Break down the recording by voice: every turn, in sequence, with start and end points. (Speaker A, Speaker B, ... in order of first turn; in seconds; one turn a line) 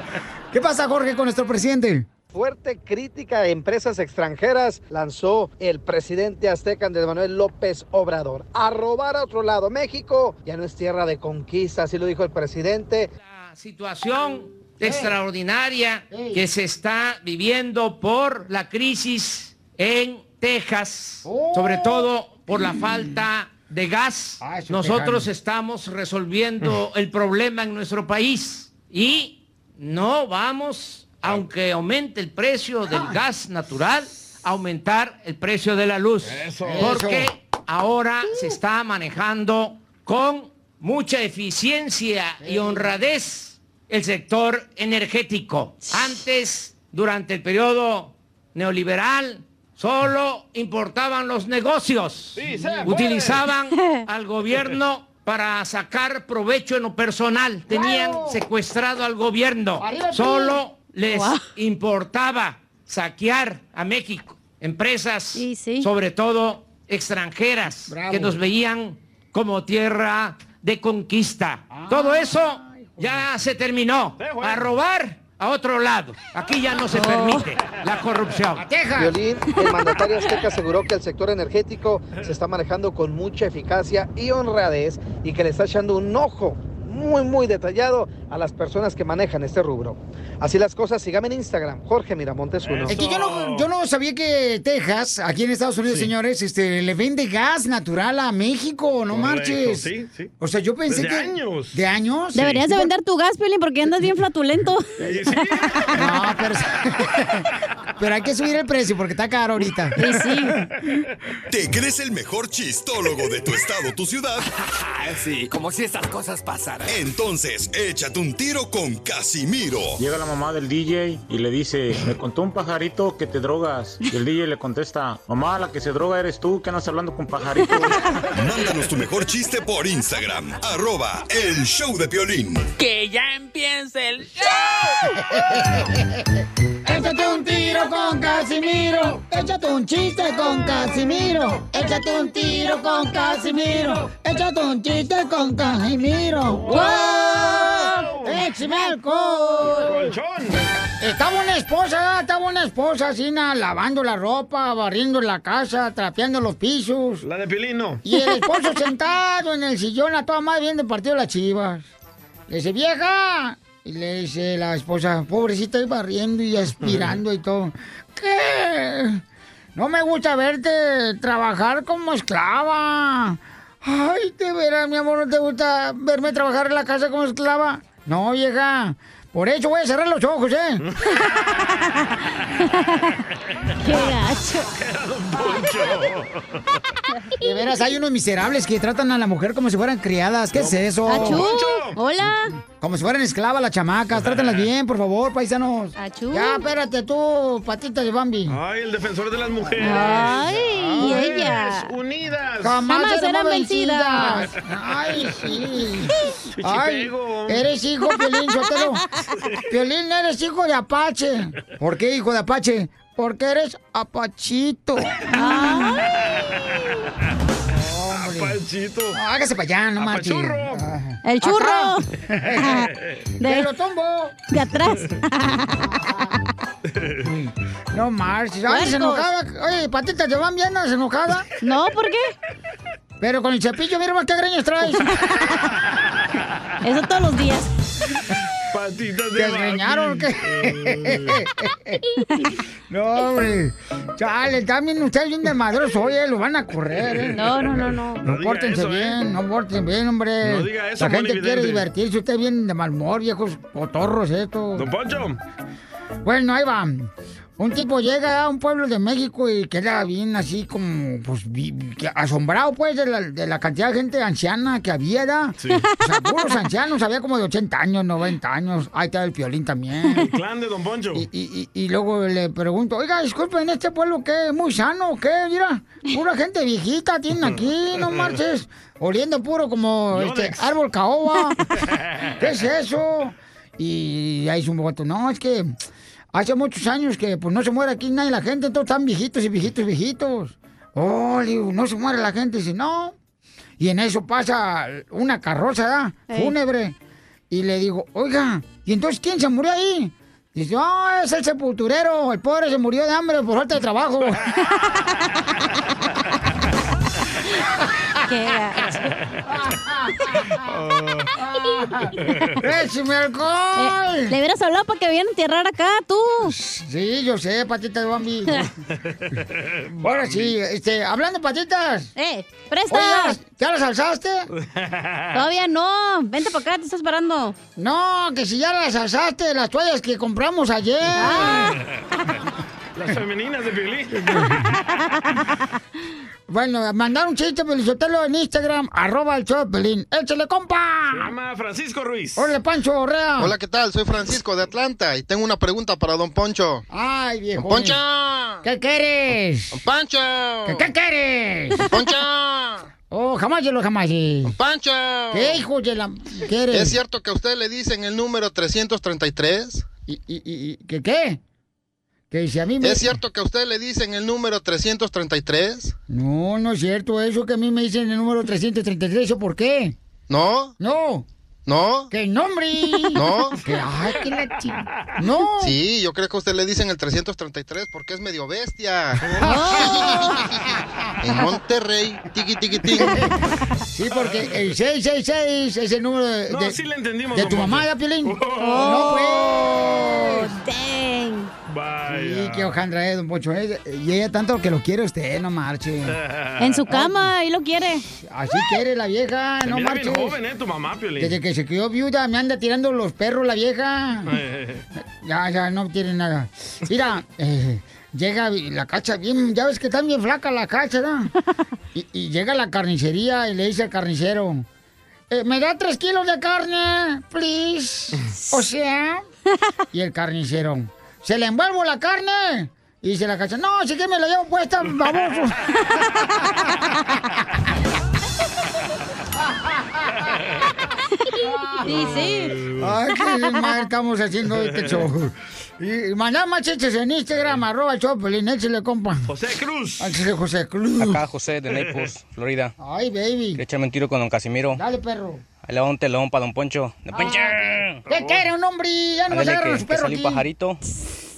Speaker A: 0.5-2.1
Speaker B: 2.3-13.1
Speaker C: 13.2-78.7
Speaker A: 14.8-15.2
Speaker A: 16.1-16.4
Speaker A: 21.2-23.1
Speaker A: 24.4-25.3
Speaker A: 32.9-33.2
Speaker D: 36.2-37.0
Speaker A: 36.6-37.3
Speaker A: 38.3-38.6
Speaker A: 42.4-43.0
Speaker D: 52.4-53.4
Speaker A: 52.4-53.1
Speaker E: 53.8-54.0
Speaker A: 57.7-58.4
Speaker A: 59.8-60.6
Speaker E: 61.1-61.5
Speaker E: 65.3-65.9
Speaker A: 67.9-68.4
Speaker A: 71.7-73.2
Speaker D: 74.2-74.7
Speaker E: 76.9-77.4
Speaker A: 78.6-79.2
Speaker B: 79.0-92.9
Speaker E: 79.5-79.8
Speaker D: 92.6-93.7
Speaker A: 92.9-102.9
Speaker D: 95.9-96.1
Speaker D: 99.1-100.3
Speaker D: 100.9-101.8
Speaker E: 102.3-104.9
Speaker D: 105.0-105.8
Speaker E: 105.7-106.0
Speaker A: 106.0-107.5
Speaker A: 108.0-110.0
Speaker E: 110.0-110.6
Speaker F: 111.5-114.5
Speaker G: 114.7-117.0
Speaker F: 116.9-120.0
Speaker H: 120.0-128.0
Speaker F: 128.3-132.7
Speaker H: 132.8-135.0
Speaker A: 135.3-136.0
Speaker A: 136.8-150.0
Speaker E: 142.4-143.5
Speaker D: 146.5-148.4
Speaker E: 146.7-148.0
Speaker E: 148.5-149.8
Speaker D: 149.7-150.7
Speaker A: 151.0-157.3
Speaker D: 157.2-158.0
Speaker A: 158.0-161.9
Speaker A: 162.5-169.2
Speaker D: 166.8-167.2
Speaker A: 169.8-180.8
Speaker E: 181.1-183.1
Speaker E: 183.8-184.7
Speaker D: 184.8-186.6
Speaker A: 187.4-191.5
Speaker D: 190.5-192.0
Speaker E: 191.1-192.5
Speaker A: 192.3-198.6
Speaker D: 194.1-194.7
Speaker E: 196.0-196.6
Speaker D: 198.5-202.8
Speaker A: 199.8-201.6
Speaker E: 199.8-201.9
Speaker A: 202.6-209.1
Speaker E: 202.9-204.5
Speaker D: 206.6-207.7
Speaker A: 209.7-215.8
Speaker E: 215.3-216.1
Speaker D: 216.3-216.8
Speaker A: 217.7-218.6
Speaker D: 218.1-219.2
Speaker A: 219.1-222.9
Speaker D: 220.0-220.9
Speaker E: 221.2-222.1
Speaker E: 223.4-223.7
Speaker A: 223.4-224.4
Speaker E: 224.5-225.9
Speaker A: 225.9-226.3
Speaker A: 227.2-231.5
Speaker E: 228.7-229.3
Speaker E: 231.6-232.3
Speaker A: 233.2-235.2
Speaker E: 235.1-235.7
Speaker E: 236.8-237.7
Speaker D: 238.7-241.4
Speaker A: 239.3-242.0
Speaker A: 242.9-254.9
Speaker E: 247.4-248.2
Speaker D: 248.3-249.2
Speaker D: 250.4-251.9
Speaker D: 254.8-255.4
Speaker A: 256.2-270.3
Speaker D: 265.6-265.9
Speaker D: 270.2-271.3
Speaker A: 271.1-281.6
Speaker D: 280.1-280.7
Speaker A: 282.4-285.8
Speaker A: 286.3-293.1
Speaker A: 293.8-296.9
Speaker A: 297.5-304.5
Speaker E: 308.3-309.1
Speaker A: 309.5-310.6
Speaker D: 310.6-311.3
Speaker A: 311.4-314.3
Speaker E: 313.8-316.5
Speaker A: 316.4-318.7
Speaker D: 319.3-320.6
Speaker A: 320.0-322.1
Speaker E: 322.2-323.4
Speaker A: 322.9-324.5
Speaker D: 324.6-325.4
Speaker E: 325.3-327.6
Speaker A: 327.8-331.8
Speaker E: 331.1-331.7
Speaker D: 332.9-334.6
Speaker A: 334.1-334.7
Speaker A: 336.5-341.3
Speaker D: 341.1-342.5
Speaker A: 342.4-343.6
Speaker I: 343.4-346.9
Speaker A: 346.9-348.0
Speaker I: 347.6-348.6
Speaker A: 348.6-349.8
Speaker I: 349.7-350.9
Speaker A: 350.6-351.8
Speaker I: 351.9-352.9
Speaker A: 353.1-354.6
Speaker I: 354.5-355.6
Speaker A: 355.3-357.0
Speaker I: 356.7-359.9
Speaker A: 360.1-361.4
Speaker A: 362.3-363.2
Speaker I: 362.8-365.9
Speaker A: 366.1-370.0
Speaker I: 370.3-370.8
Speaker A: 370.8-371.3
Speaker I: 371.7-372.1
Speaker A: 372.1-375.8
Speaker I: 373.1-373.6
Speaker I: 375.6-379.3
Speaker E: 379.4-380.4
Speaker A: 379.4-380.4
Speaker I: 380.1-380.5
Speaker I: 381.2-383.2
Speaker A: 383.0-383.3
Speaker A: 383.9-386.8
Speaker D: 384.1-384.7
Speaker D: 386.5-389.2
Speaker A: 387.3-390.6
Speaker E: 388.6-391.5
Speaker D: 391.7-392.8
Speaker A: 392.1-396.2
Speaker D: 396.1-396.8
Speaker E: 396.6-398.1
Speaker A: 396.9-397.3
Speaker A: 398.2-400.4
Speaker D: 399.6-401.4
Speaker A: 401.2-404.4
Speaker D: 404.3-404.9
Speaker A: 405.2-411.3
Speaker A: 411.9-414.7
Speaker A: 415.3-419.2
Speaker A: 419.9-425.6
Speaker A: 429.5-430.2
Speaker D: 430.3-430.6
Speaker A: 431.4-439.3
Speaker E: 431.8-432.5
Speaker D: 432.4-432.9
Speaker E: 433.3-433.7
Speaker D: 434.7-435.0
Speaker D: 439.3-440.1
Speaker A: 440.0-441.2
Speaker J: 441.0-442.7
Speaker D: 441.7-442.1
Speaker A: 442.8-443.6
Speaker J: 443.6-444.8
Speaker A: 444.8-445.4
Speaker J: 445.6-448.0
Speaker A: 447.1-450.4
Speaker D: 448.1-448.4
Speaker J: 449.3-450.8